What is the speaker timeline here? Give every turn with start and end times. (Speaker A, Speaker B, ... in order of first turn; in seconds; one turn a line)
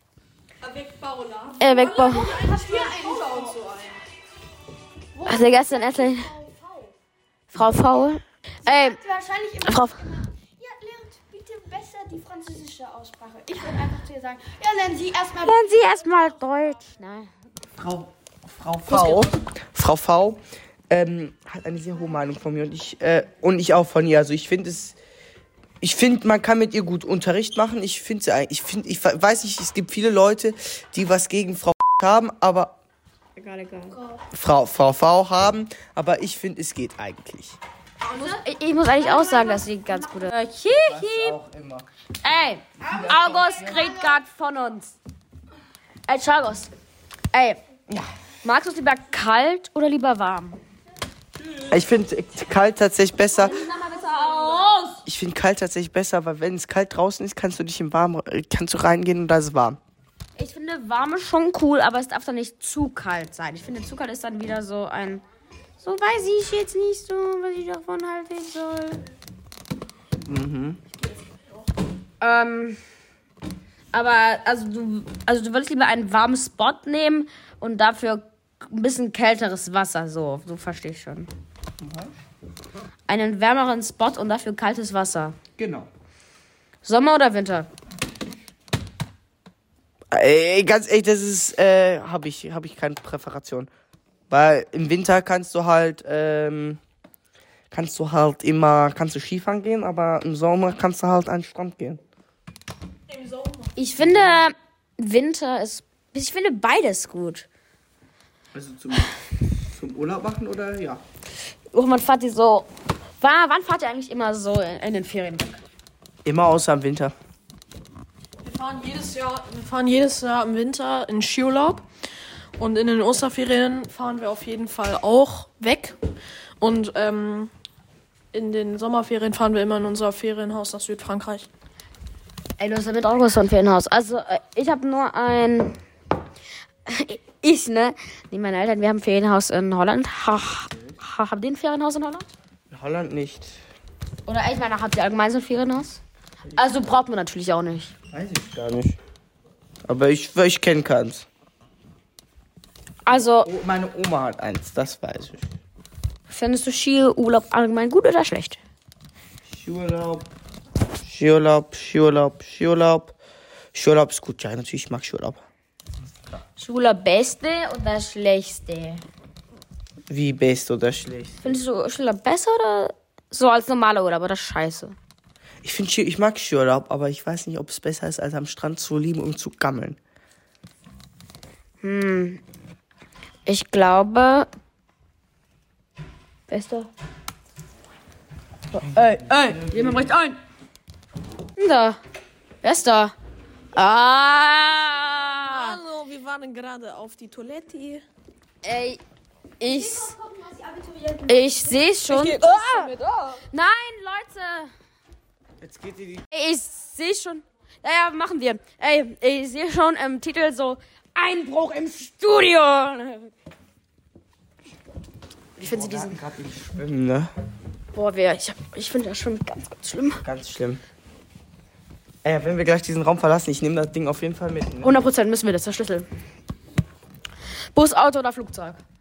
Speaker A: 0.6-4.0
Speaker B: 1.6-2.3
Speaker C: 1.8-3.6
Speaker C: 5.1-6.9
Speaker B: 5.2-6.3
Speaker B: 7.5-9.0
Speaker C: 8.6-15.6
Speaker B: 9.6-10.0
Speaker B: 15.4-17.3
Speaker D: 17.8-25.0
Speaker B: 18.9-19.2
Speaker D: 25.8-32.8
Speaker B: 33.4-34.0
Speaker D: 34.3-37.6
Speaker B: 38.0-41.4
Speaker D: 40.8-41.9
Speaker B: 42.2-45.0
Speaker D: 42.8-43.9
Speaker B: 46.1-46.7
Speaker B: 47.3-47.6
Speaker B: 48.4-50.6
Speaker D: 51.7-53.6
Speaker B: 53.4-55.0
Speaker D: 55.0-59.8
Speaker B: 60.4-65.2
Speaker B: 65.8-69.0
Speaker D: 70.2-70.8
Speaker B: 72.2-72.8
Speaker B: 73.9-81.3
Speaker D: 81.8-82.1
Speaker B: 83.1-85.3
Speaker D: 85.6-85.9
Speaker B: 86.8-87.7
Speaker D: 90.1-93.7
Speaker D: 94.3-96.8
Speaker D: 97.7-102.0
Speaker A: 103.1-103.7
Speaker B: 103.8-107.5
Speaker D: 104.0-104.5
Speaker D: 108.5-111.0
Speaker B: 111.7-112.7
Speaker B: 113.2-115.6
Speaker D: 116.2-117.1
Speaker A: 118.4-121.8
Speaker A: 122.6-126.0
Speaker A: 126.6-127.5
Speaker A: 128.3-131.5
Speaker B: 132.6-135.8
Speaker B: 136.8-142.3
Speaker D: 142.7-143.6
Speaker B: 144.2-146.0
Speaker B: 146.5-147.9
Speaker D: 148.1-149.0
Speaker D: 149.8-151.2
Speaker B: 153.0-153.5
Speaker D: 153.1-155.5
Speaker B: 156.3-158.6
Speaker D: 159.4-160.2
Speaker D: 161.0-163.2
Speaker D: 163.7-165.4
Speaker B: 166.6-169.0
Speaker D: 170.1-171.6
Speaker B: 171.4-174.9
Speaker D: 175.6-180.0
Speaker B: 181.8-182.4
Speaker B: 183.4-184.5
Speaker B: 186.5-186.9
Speaker B: 188.7-190.4
Speaker D: 189.0-190.1
Speaker B: 191.6-192.0
Speaker B: 192.6-193.1
Speaker B: 193.7-195.8
Speaker A: 195.2-198.0
Speaker B: 198.6-199.0
Speaker B: 199.6-200.1
Speaker B: 201.2-202.9
Speaker A: 202.1-203.4
Speaker B: 203.5-204.7
Speaker D: 205.6-206.3
Speaker B: 206.3-213.3
Speaker B: 215.6-216.2
Speaker D: 215.6-217.3
Speaker B: 217.9-220.2
Speaker D: 220.2-220.8
Speaker D: 222.2-224.9
Speaker B: 224.8-226.1
Speaker B: 227.7-228.8